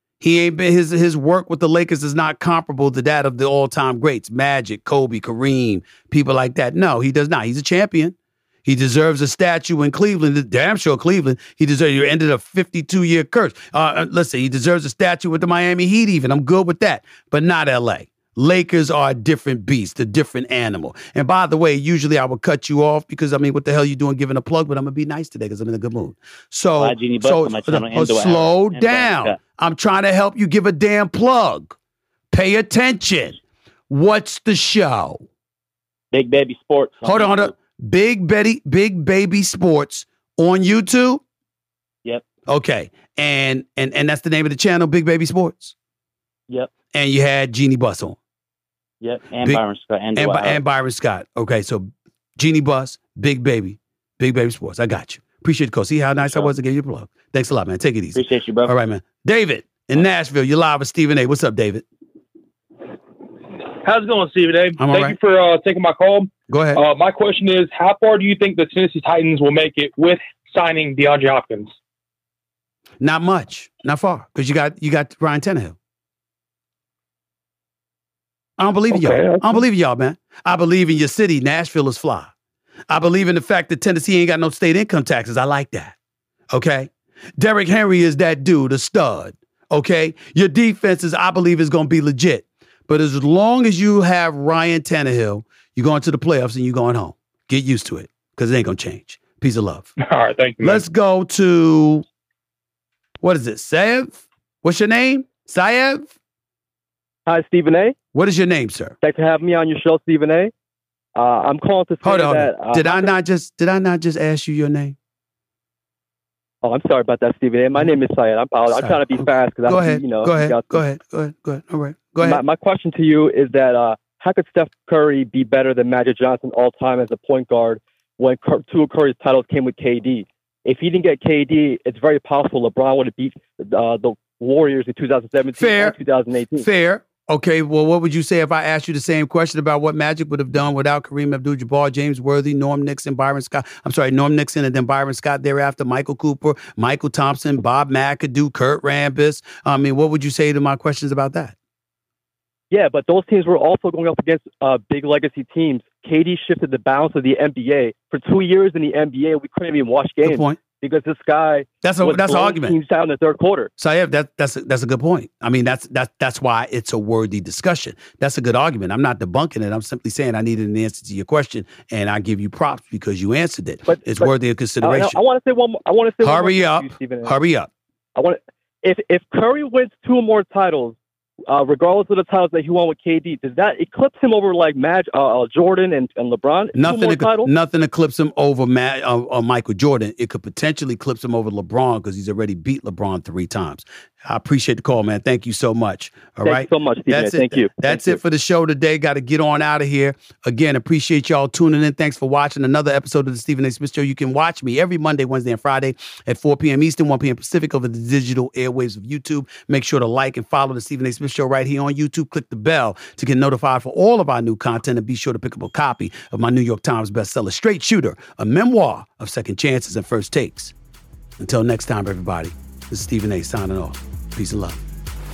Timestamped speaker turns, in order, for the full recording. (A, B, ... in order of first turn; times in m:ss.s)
0:00.2-0:31.8 A
0:26.8-0:29.4 B
0:32.3-0:33.4 A
0:33.9-0:35.2 A
0:36.1-0:37.6 B
0:37.0-0:41.2 A
0:42.5-0:45.7 A
0:46.9-0:48.2 A
0:49.0-0:50.6 B
0:50.1-1:01.8 A
0:56.2-0:56.5 B
0:58.1-0:58.8 B
1:03.8-1:11.7 C
1:04.8-1:05.2 A
1:06.5-1:06.8 A
1:13.0-1:15.8 A
1:18.6-1:22.3 A
1:18.9-1:19.6 C
1:22.9-1:25.9 A
1:26.5-1:39.9 A
1:40.0-1:40.8 C
1:40.6-1:42.0 A
1:43.2-1:46.1 A
1:47.2-1:48.0 D
1:48.1-1:49.0 A
1:49.0-1:50.5 D
1:51.1-1:53.1 D
1:52.0-1:55.0 A
1:56.6-2:00.8 D
1:58.7-2:02.4 A
2:02.2-2:16.7 D
2:15.6-2:16.0 A
2:16.6-2:31.5 A
2:32.7-2:43.7 D
2:40.2-2:40.6 A
2:41.8-2:42.8 A
2:43.8-2:55.2 A
2:53.8-2:57.4 D
2:56.2-2:57.7 A
2:58.2-3:01.0 D
3:01.5-3:07.5 D
3:06.8-3:40.7 A
3:16.4-3:18.2 D
3:41.4-3:44.8 A